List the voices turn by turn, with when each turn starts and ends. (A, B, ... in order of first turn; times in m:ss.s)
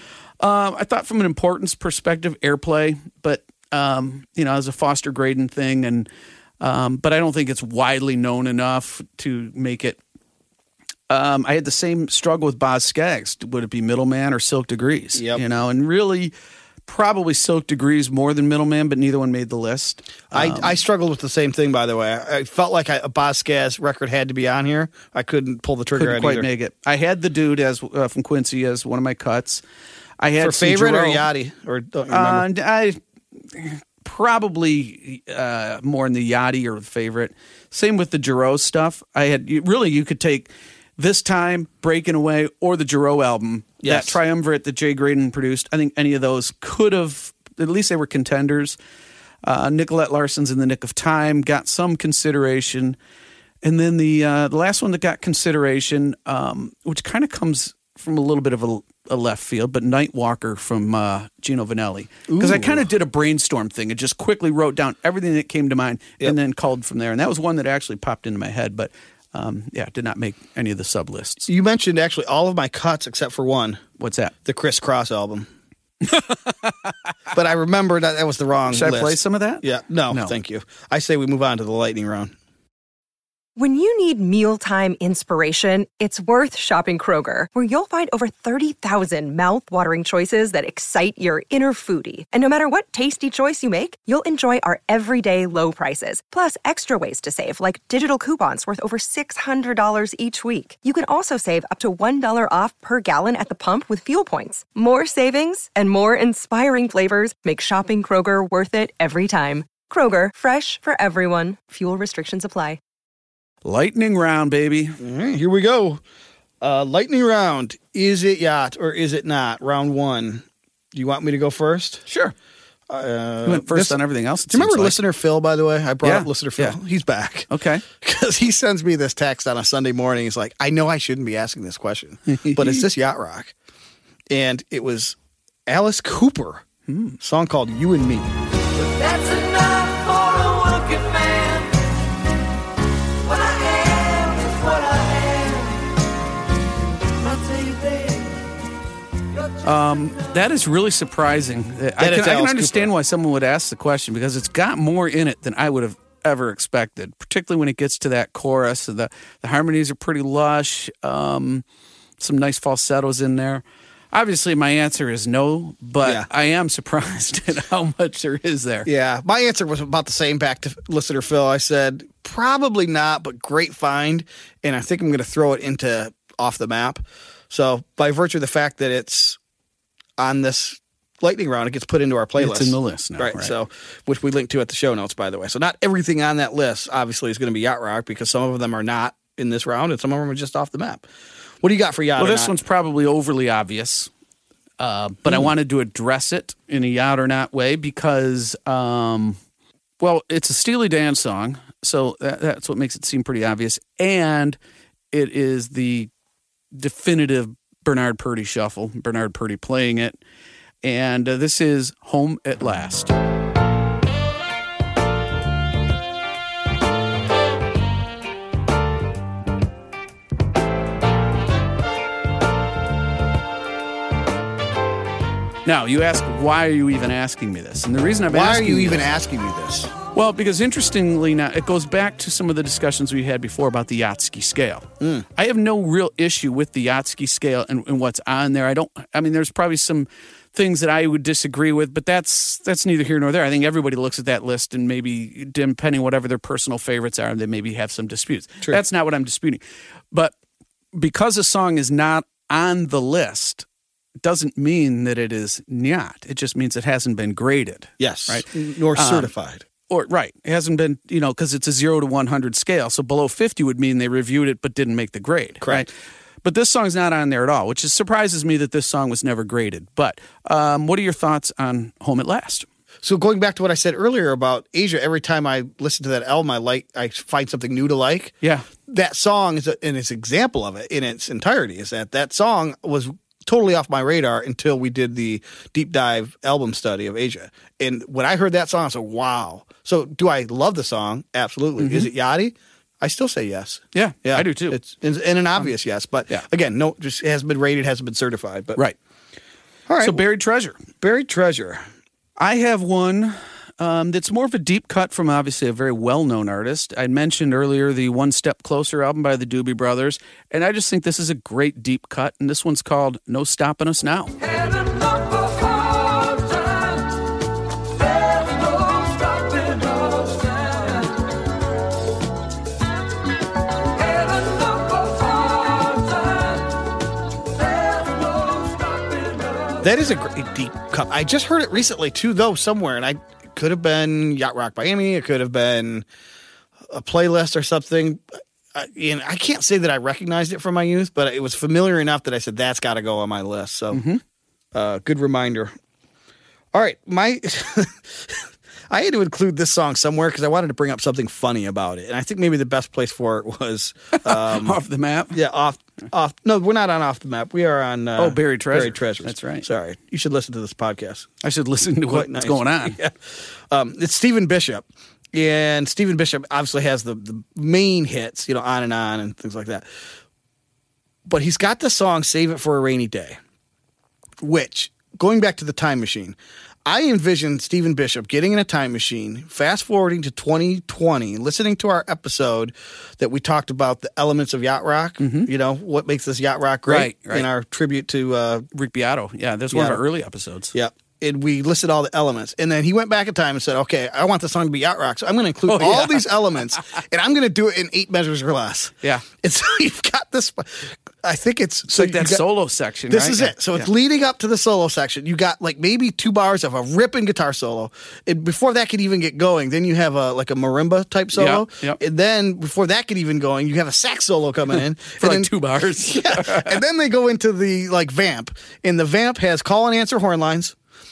0:00.4-0:06.1 A
0:06.6-0:10.0 A
0:11.1-0:16.3 A
0:15.2-0:15.4 B
0:16.9-0:20.8 A
0:20.3-0:26.5 B
0:26.0-0:29.6 A
0:30.2-0:31.3 A
0:30.4-0:32.5 B
0:32.1-0:33.0 A
0:33.5-0:48.8 A
0:43.8-0:44.2 B
0:49.4-0:53.0 A
0:53.6-1:11.5 A
1:02.3-1:02.9 B
1:11.5-1:13.8 B
1:14.0-1:14.3 A
1:14.4-1:15.5 B
1:16.0-1:16.7 A
1:17.3-1:22.3 B
1:18.7-1:20.3 A
1:23.6-1:52.8 C
1:53.6-1:55.0 A
1:55.0-1:56.0 B
1:56.6-2:02.1 B
2:02.1-2:02.3 A
2:02.9-2:04.0 B
2:03.5-2:05.0 A
2:04.5-2:13.5 B
2:06.0-2:06.8 A
2:07.5-2:07.8 A
2:12.3-2:12.8 A
2:14.3-2:15.2 B
2:15.7-2:16.6 B
2:16.9-2:17.2 A
2:17.2-2:18.3 B
2:18.7-2:21.9 D
2:23.2-2:26.0 D
2:27.2-2:28.5 D
2:29.6-2:41.6 A
2:32.0-2:32.9 B
2:42.2-2:48.9 A
2:46.0-2:46.3 B
2:48.8-2:59.4 B
3:00.2-3:11.1 B
3:02.4-3:03.5 A
3:11.6-3:12.5 B
3:12.2-3:14.1 A
3:14.8-3:19.4 A
3:20.0-3:24.6 A
3:25.1-3:26.1 A
3:26.8-3:30.2 A
3:30.8-3:33.1 A
3:45.6-3:49.1 A
3:48.3-3:49.9 B
3:50.1-4:09.6 A
3:55.0-3:55.3 B
4:11.0-4:13.6 A
4:14.2-4:19.3 A
4:18.0-4:19.6 B
4:19.9-4:25.9 A
4:25.6-4:25.9 B
4:26.4-4:32.7 A
4:33.0-4:38.3 B
4:38.9-4:58.8 B
4:51.8-4:52.1 A
4:53.9-4:54.8 A
4:59.9-5:00.2 B
5:00.0-5:00.8 A
5:01.0-5:01.8 B
5:02.4-5:14.4 A
5:14.4-5:17.1 D
5:18.0-5:21.2 D
5:24.0-5:26.7 D
5:27.6-5:29.8 D
5:29.8-5:36.1 B
5:36.9-5:44.0 B
5:43.9-5:44.2 A
5:44.7-5:45.7 B
5:46.7-5:54.8 B
5:54.2-5:55.4 A
5:55.3-6:01.3 B
5:58.2-5:59.7 A
6:01.4-6:03.0 A
6:02.1-6:09.9 B
6:11.3-6:13.4 B
6:14.4-6:28.7 B
6:25.2-6:25.5 A
6:26.9-6:27.5 A
6:28.7-6:30.7 A
6:29.7-6:30.0 B
6:30.7-6:42.4 B
6:35.7-6:36.8 A
6:41.9-6:43.9 A
6:43.1-7:00.8 B
6:51.3-6:52.0 A
6:55.2-6:56.8 A